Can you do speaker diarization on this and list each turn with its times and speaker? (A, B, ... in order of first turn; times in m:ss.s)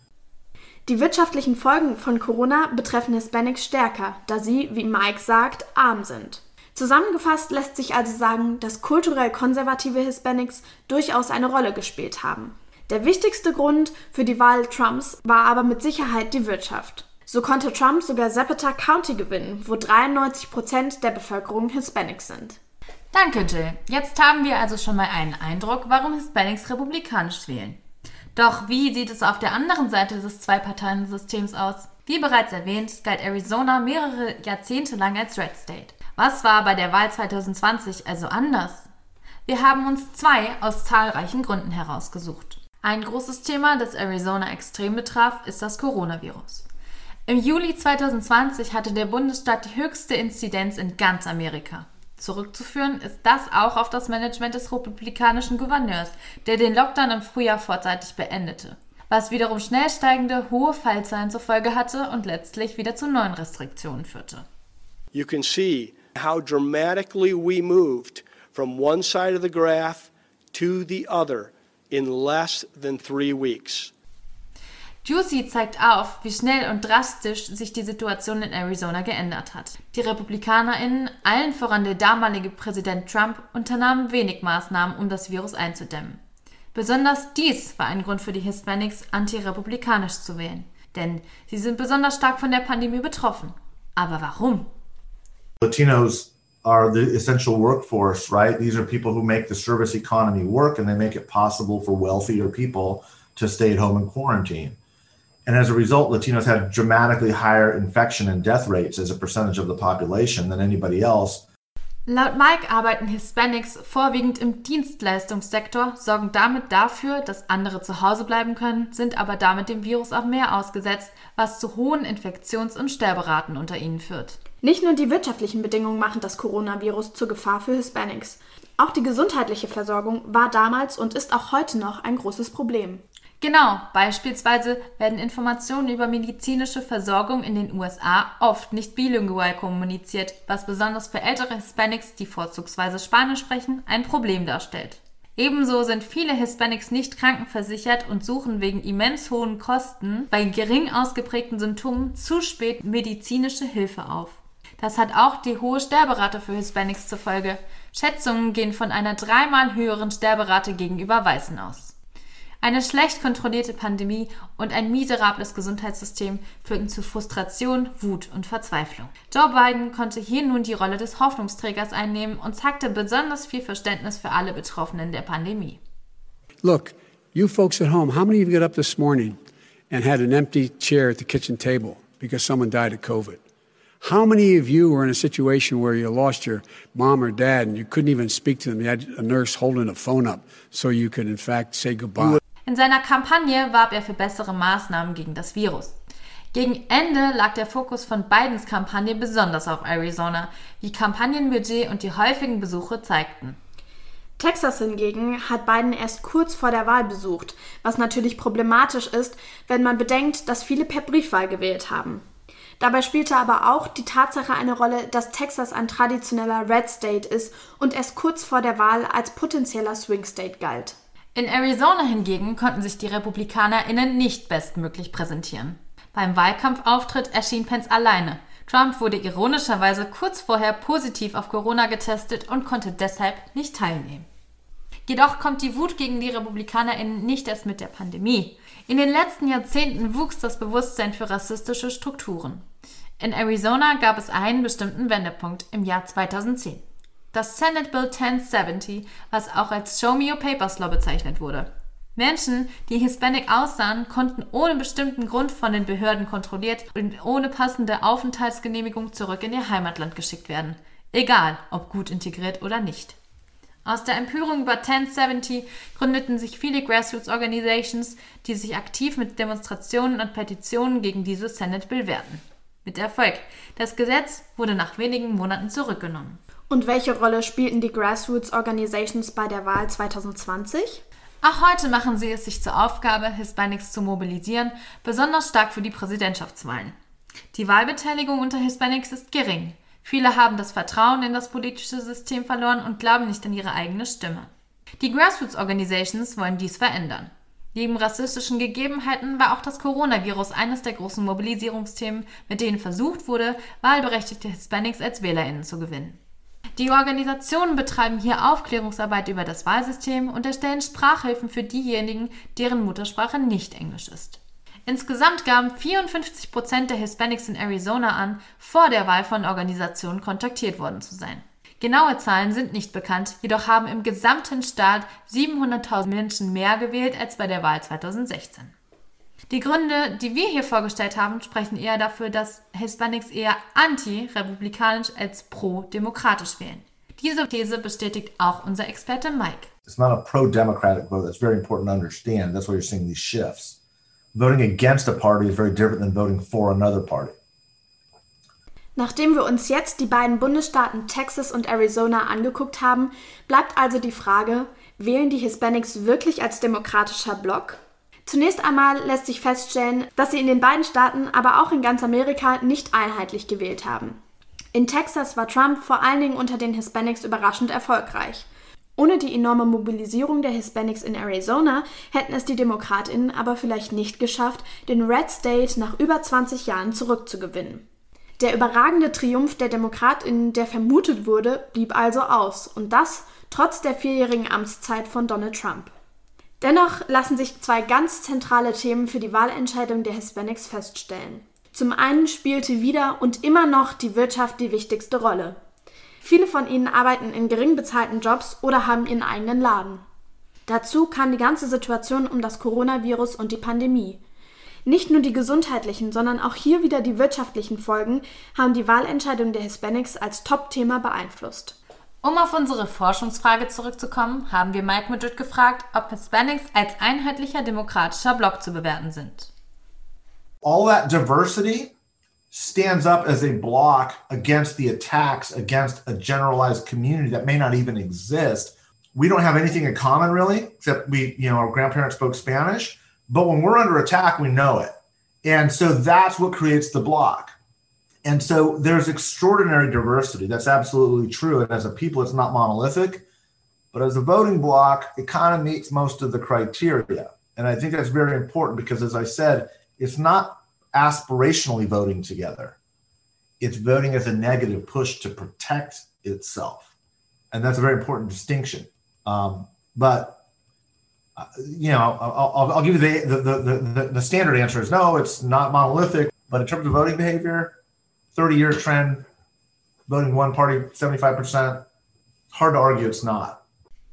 0:00.8-0:22.6 A
0:23.1-0:27.8 B
0:28.3-0:38.9 B
0:39.4-0:46.7 B
0:47.3-1:04.4 B
1:05.1-1:13.9 C
1:15.0-1:26.2 B
1:26.7-1:34.7 B
1:35.6-1:44.8 D
1:45.4-1:51.4 D
1:52.0-2:04.4 B
2:04.6-2:13.0 A
2:13.4-2:41.9 B
2:42.6-2:55.8 B
2:56.6-2:59.4 E
2:59.9-3:03.4 E
3:04.0-3:12.4 E
3:12.6-3:15.9 B
3:16.5-3:23.6 B
3:24.4-3:32.2 A
3:32.8-3:41.0 A
3:41.3-3:54.3 B
3:55.0-4:02.6 B
4:03.2-4:23.2 B
4:23.8-4:36.4 B
4:36.7-4:41.0 A
4:41.4-4:47.0 B
4:47.5-4:54.5 B
4:55.0-5:06.2 B
5:06.8-5:28.7 B
5:29.5-5:39.7 B
5:39.9-5:43.8 D
5:44.3-5:47.3 D
5:49.0-6:04.2 A
6:04.7-6:17.8 A
6:18.4-6:25.9 A
6:26.6-6:35.6 A
6:36.2-6:40.0 A
6:40.7-6:44.2 A
6:44.8-6:51.7 A
6:52.2-6:59.5 B
7:00.6-7:01.9 D
7:02.5-7:17.5 D
7:18.2-7:23.2 D
7:23.9-7:32.8 D
7:33.6-7:36.9 D
7:37.5-7:40.4 D
7:41.4-7:47.7 D
7:48.3-7:49.2 D
7:50.1-7:51.8 D
7:52.5-7:53.6 D